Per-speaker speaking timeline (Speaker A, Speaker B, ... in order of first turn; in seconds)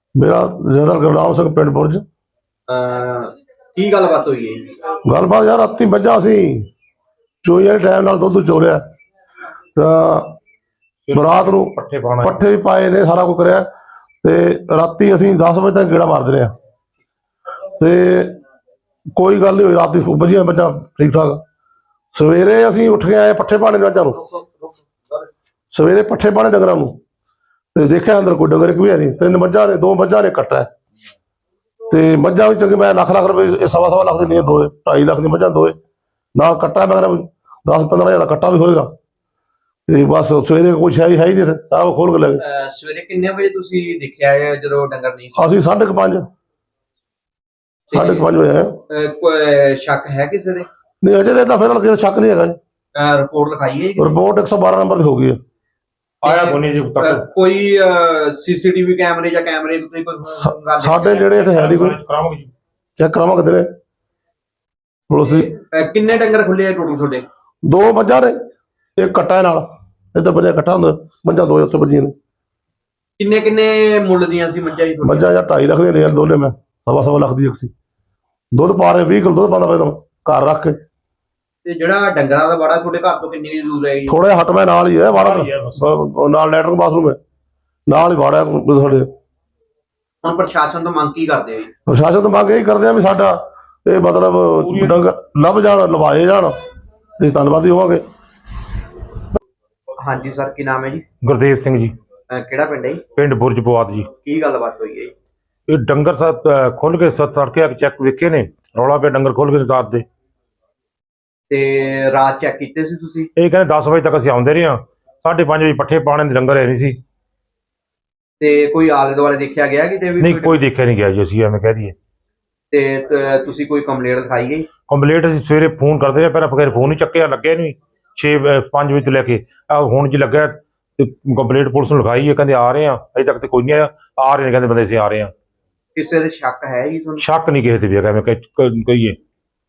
Speaker A: 0.2-2.0, 5.0-6.7, 7.4-8.8, 9.8-10.4, 11.2-13.7, 14.2-16.5, 17.8-18.4, 19.2-21.4, 22.1-24.2, 25.7-26.9, 27.8-30.7, 31.9-35.8, 36.4-38.9, 39.9-42.4, 45.4-46.2, 47.9-48.8, 51.0-52.6, 54.0-55.4, 60.3-62.0, 63.0-63.7, 65.1-65.5, 67.6-68.4, 69.0-72.1, 75.0-77.7, 78.5-80.8, 84.1-87.2, 87.9-89.1, 91.9-96.5, 97.2-98.0
Speaker B: 2.7-4.7, 42.4-45.5, 47.9-48.3, 48.9-50.7, 53.0-54.2, 56.2-61.4, 65.2-67.2, 73.2-75.3, 81.7-84.2, 90.2-91.7, 100.0-101.0, 102.3-103.0, 104.2-105.1, 111.5-113.3, 118.4-120.6, 122.7-124.7, 135.9-137.2
Speaker C: 11.1-12.4, 56.2-57.2, 61.3-62.5, 85.1-85.9, 94.6-95.0, 101.2-101.9, 103.2-104.1, 105.7-110.1, 113.4-117.0, 120.2-122.0, 124.9-135.3, 137.2-139.2